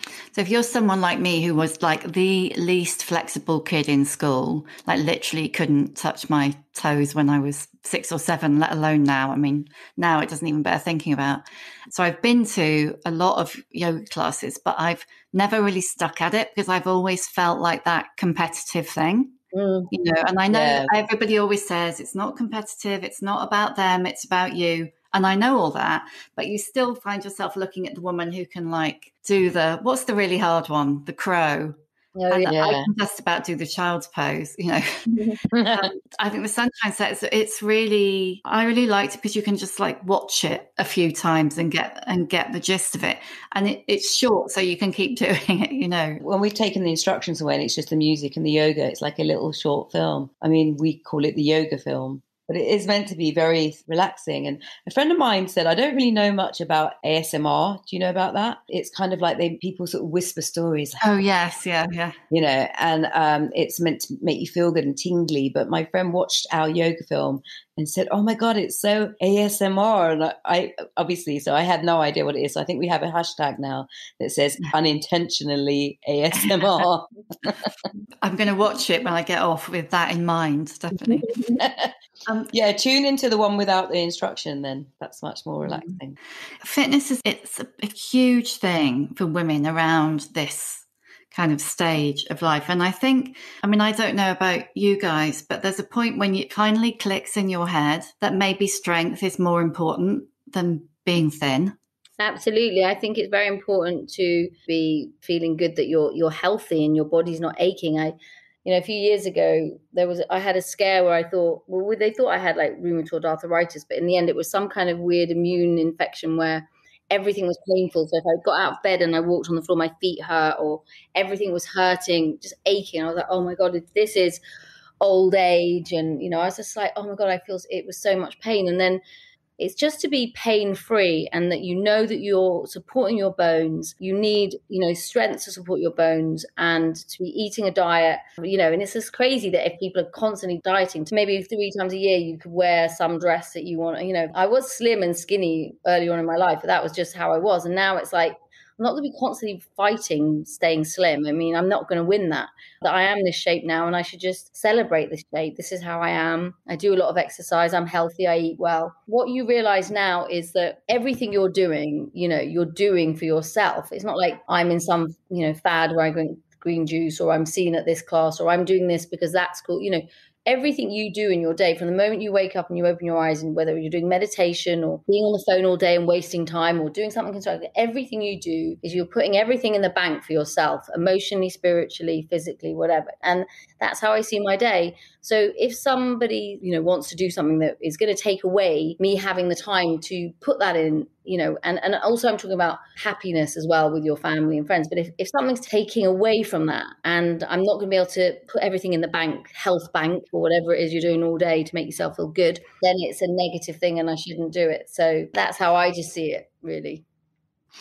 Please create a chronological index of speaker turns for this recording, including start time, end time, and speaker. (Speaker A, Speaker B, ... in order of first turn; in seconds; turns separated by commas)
Speaker A: 0.3-19.3, Speaker B: 19.5-19.9, Speaker A: 19.9-31.7, Speaker C: 20.5-20.9, Speaker B: 32.2-32.5, Speaker A: 32.3-35.1, Speaker C: 32.5-32.9, Speaker B: 35.1-35.4, Speaker C: 35.5-35.9, Speaker A: 35.7-46.2, Speaker C: 46.2-61.0, Speaker A: 61.0-62.1, Speaker C: 62.3-77.6, Speaker A: 78.2-81.3, Speaker C: 81.4-81.9, Speaker C: 82.5-86.2, Speaker A: 85.7-85.9, Speaker A: 86.6-101.7, Speaker B: 102.2-124.4, Speaker B: 125.0-129.0, Speaker B: 129.6-207.0